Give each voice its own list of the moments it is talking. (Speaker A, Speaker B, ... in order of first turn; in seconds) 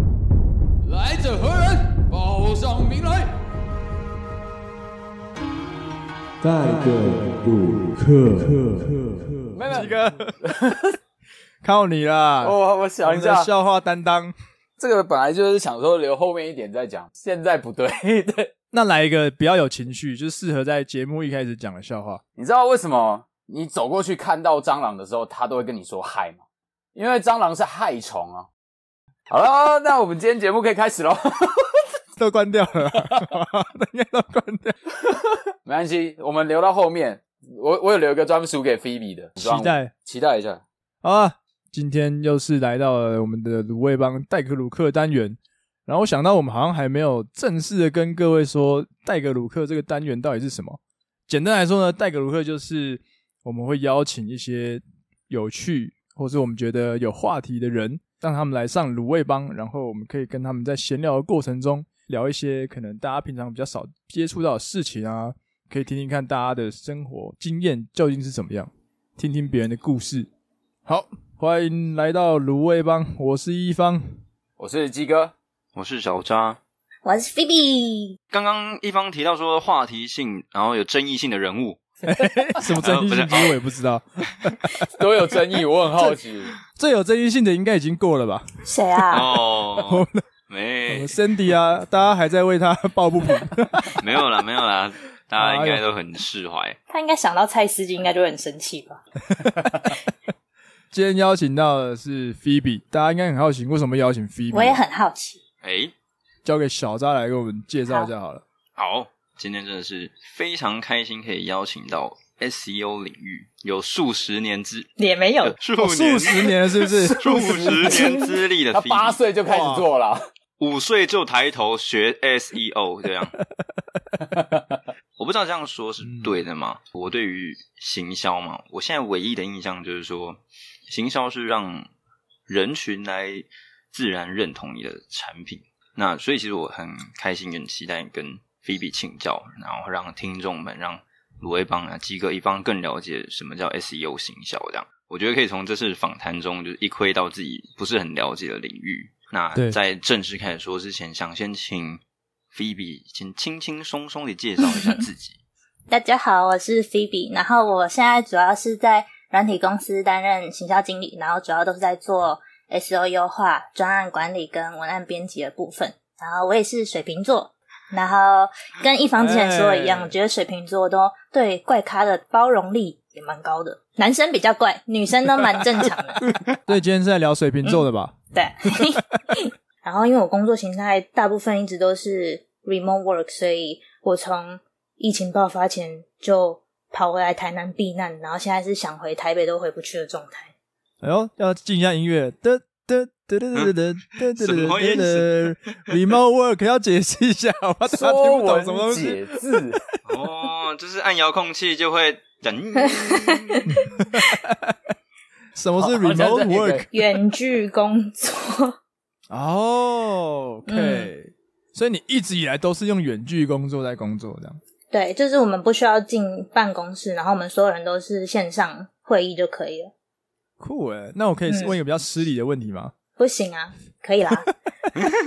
Speaker A: 0.8-3.4, 6.6-8.8, 9.4-10.9, 12.4-13.5, 14.8-18.5, 22.4-26.4, 26.9-28.5, 29.3-31.8, 35.6-40.6, 74.6-75.3, 85.0-86.5, 117.8-120.2, 124.2-124.8, 197.9-199.8, 205.8-206.8
Speaker B: 6.4-7.3, 9.7-10.3, 11.6-14.3, 18.7-22.2, 32.2-34.8, 39.4-39.9, 41.0-70.3, 70.8-74.2, 82.0-84.9, 86.7-88.5, 89.8-90.2, 90.9-94.0, 95.4-95.8, 99.4-100.0, 100.9-104.8, 106.4-108.4, 115.8-118.2, 119.5-119.8, 126.0-126.3, 169.2-170.1, 176.5-178.1, 178.7-179.0, 191.0-199.2, 203.7-204.7, 205.5-206.9, 209.3-214.6, 220.6-222.9
Speaker C: 75.7-76.6, 78.3-81.8, 82.7-83.6, 89.1-91.2, 94.0-96.8, 105.6-105.9, 108.8-114.9, 115.4-119.2, 120.6-123.3, 125.2-131.9, 132.5-152.0, 152.5-155.4, 194.3-195.9, 200.1-203.8
Speaker D: 77.0-78.2, 88.7-89.3, 96.9-99.0, 104.5-105.4, 115.0-115.5, 155.9-176.4, 177.6-190.5, 202.9-203.8, 206.9-208.8, 210.7-211.1, 214.9-219.9, 221.5-221.7, 223.2-224.5